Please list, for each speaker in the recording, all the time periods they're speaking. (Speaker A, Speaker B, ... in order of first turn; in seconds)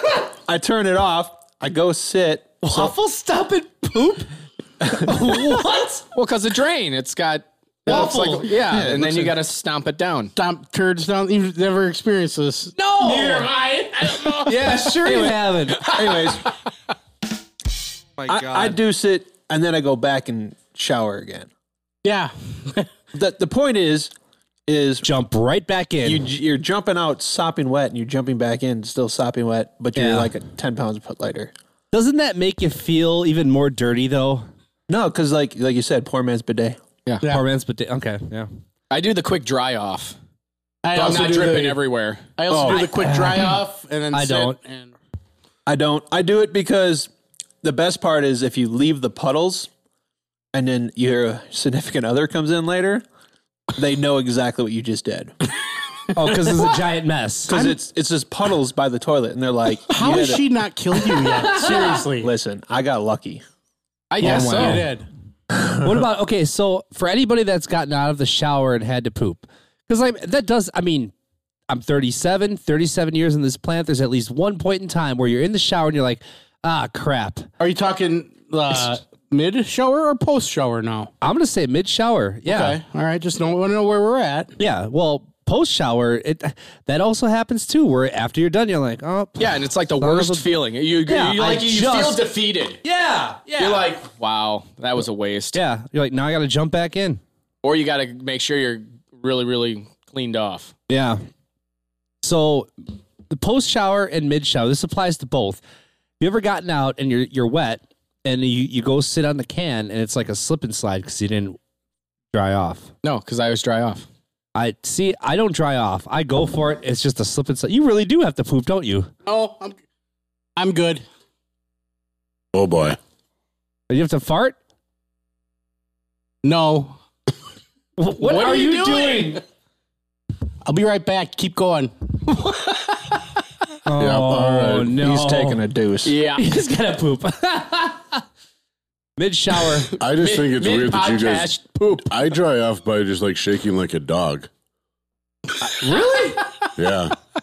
Speaker A: 0.5-2.9, 4.8-5.5, 7.9-9.4, 15.8-16.4, 18.3-21.5, 23.1-24.1, 24.7-25.1, 26.0-31.5, 34.9-36.8, 42.5-43.5, 45.6-47.1, 47.6-49.7, 50.5-53.0, 53.7-55.3, 57.5-60.4, 61.5-63.4, 134.7-136.2
Speaker B: 2.6-4.3, 4.9-6.0, 7.9-8.5, 12.8-13.5, 14.4-15.9, 18.2-18.8, 25.0-26.2, 29.9-30.3, 31.9-34.5, 37.2-38.5, 44.1-44.6, 56.1-57.8, 64.2-64.9, 65.8-71.1, 71.7-77.5, 81.2-82.8, 84.6-90.4, 91.0-92.2, 92.8-93.9, 95.5-97.2, 100.9-101.2, 102.2-102.7, 103.3-105.6, 106.2-111.6, 112.3-112.9, 114.5-119.1, 123.9-124.6, 128.0-129.4, 133.8-135.6, 136.3-138.2, 139.2-139.9, 145.6-146.4
Speaker C: 6.1-10.3, 15.8-16.3, 38.9-40.1, 40.9-42.3, 64.1-64.9, 89.4-92.8, 93.6-95.6, 97.6-100.7, 113.0-114.0, 128.2-129.4, 136.0-136.4, 140.2-142.1
Speaker D: 10.3-14.8, 22.0-22.9, 40.8-41.8, 42.4-44.9, 59.9-62.3, 64.2-65.1, 77.6-81.1, 82.5-84.5, 119.2-119.8, 120.5-121.0, 126.4-127.0, 130.7-131.9
Speaker E: 122.5-123.0, 134.0-134.9, 140.0-141.5, 142.1-144.5, 146.8-147.1